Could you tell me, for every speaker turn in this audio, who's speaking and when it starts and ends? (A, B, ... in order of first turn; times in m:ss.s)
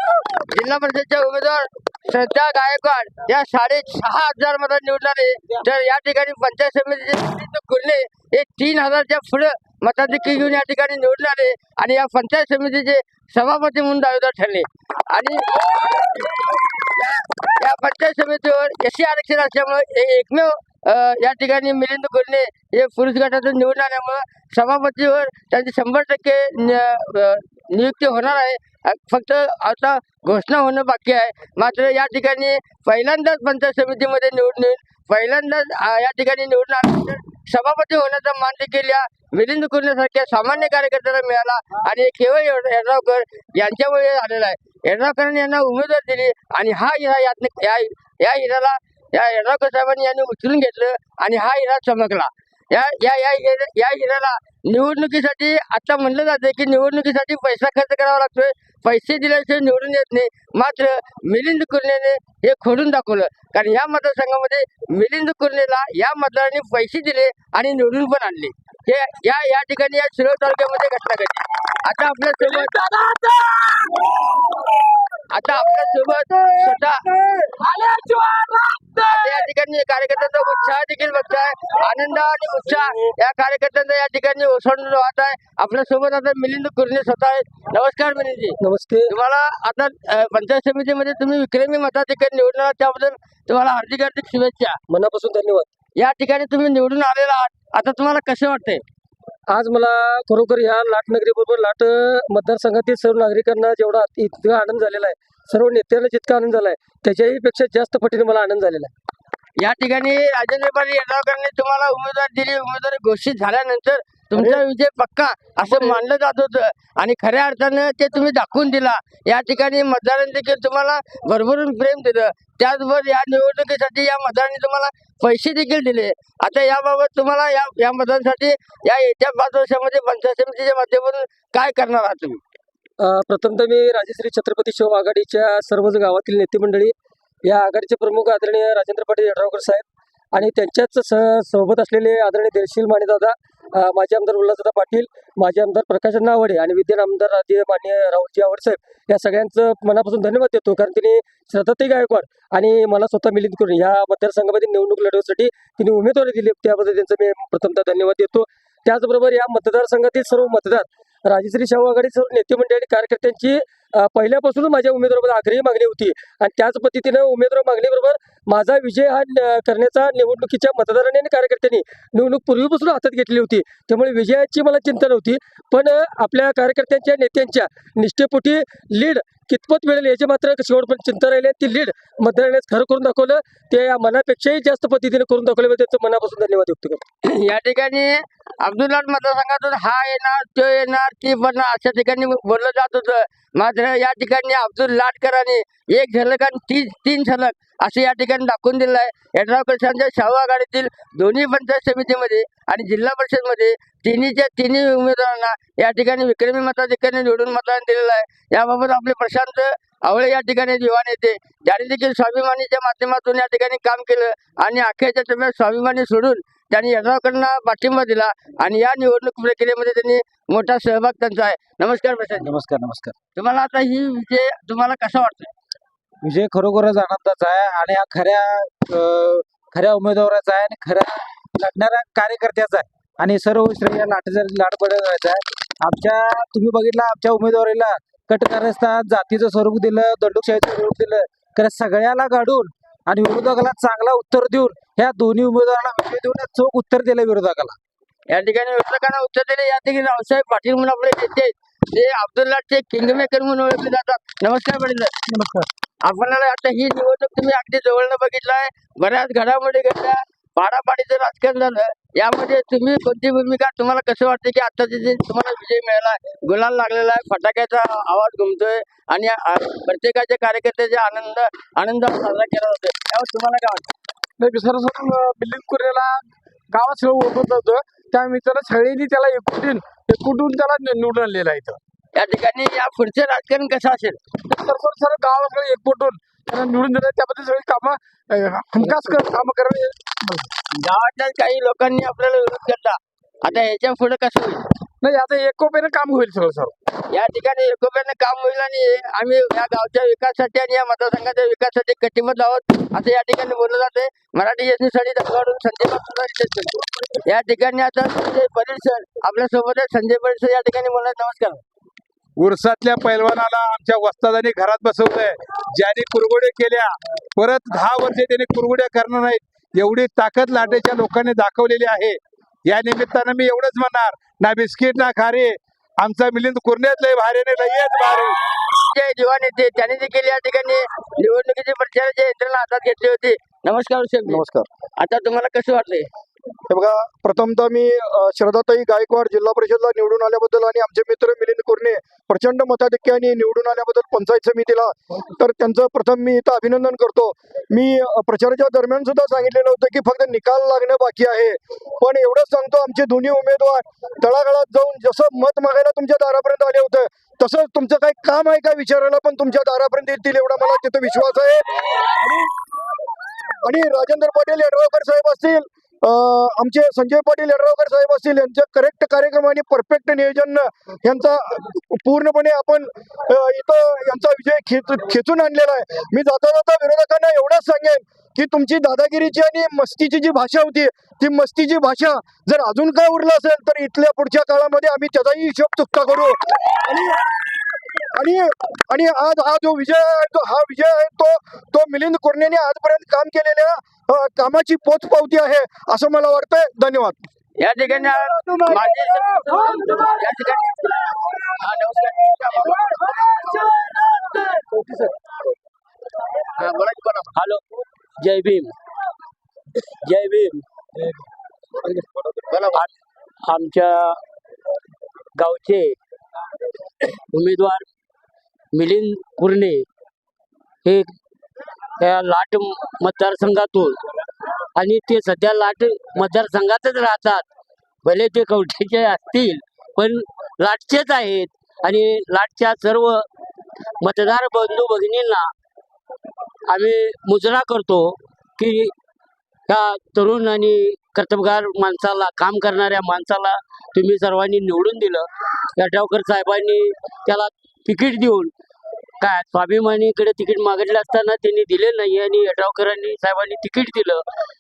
0:00.4-0:16.2 A
0:16.8-1:12.9 A
1:12.8-1:13.9 B
1:15.3-1:17.0 A
1:17.6-1:19.1 B
1:19.1-1:34.8 A
1:28.6-1:29.1 C
1:34.9-1:35.7 C
1:36.0-1:38.8 A
1:39.5-1:48.9 C
1:49.6-2:12.4 A
1:55.7-1:56.0 C
2:13.0-3:07.0 C
3:07.2-3:42.5 A
3:42.4-3:43.1 D
3:43.4-3:45.5 A
3:46.2-4:07.8 D
4:08.4-4:15.1 A
4:15.3-4:15.6 B
4:16.0-4:33.9 A
4:34.4-4:41.8 B
4:42.2-4:44.2 A
4:44.4-4:50.5 B
4:51.0-4:54.6 A
4:55.0-4:56.7 B
4:57.1-5:11.6 A
5:12.4-5:28.4 E
5:28.8-5:34.4 A
5:34.3-5:34.7 F
5:35.0-5:36.1 A
5:36.7-6:01.7 F
6:03.6-6:27.3 F
6:28.1-6:37.3 F
6:37.6-6:39.3 E
6:37.6-6:40.9 A
6:38.5-6:38.8 B
6:41.5-6:43.5 A
6:44.6-6:45.1 C
6:46.6-6:47.2 E
6:46.9-6:47.2 A
6:47.3-6:47.6 G
6:48.2-6:48.7 G
6:50.0-6:51.2 G
6:53.4-6:54.2 G
6:55.4-6:56.0 G
6:57.3-6:57.9 G
6:58.7-6:59.9 G
7:00.8-7:01.1 G
7:02.0-7:04.0 G
7:04.8-7:07.5 G
7:08.0-7:13.2 G
7:14.0-7:15.5 G
7:16.7-7:18.9 G
7:19.7-7:28.5 G
7:29.2-7:34.2 G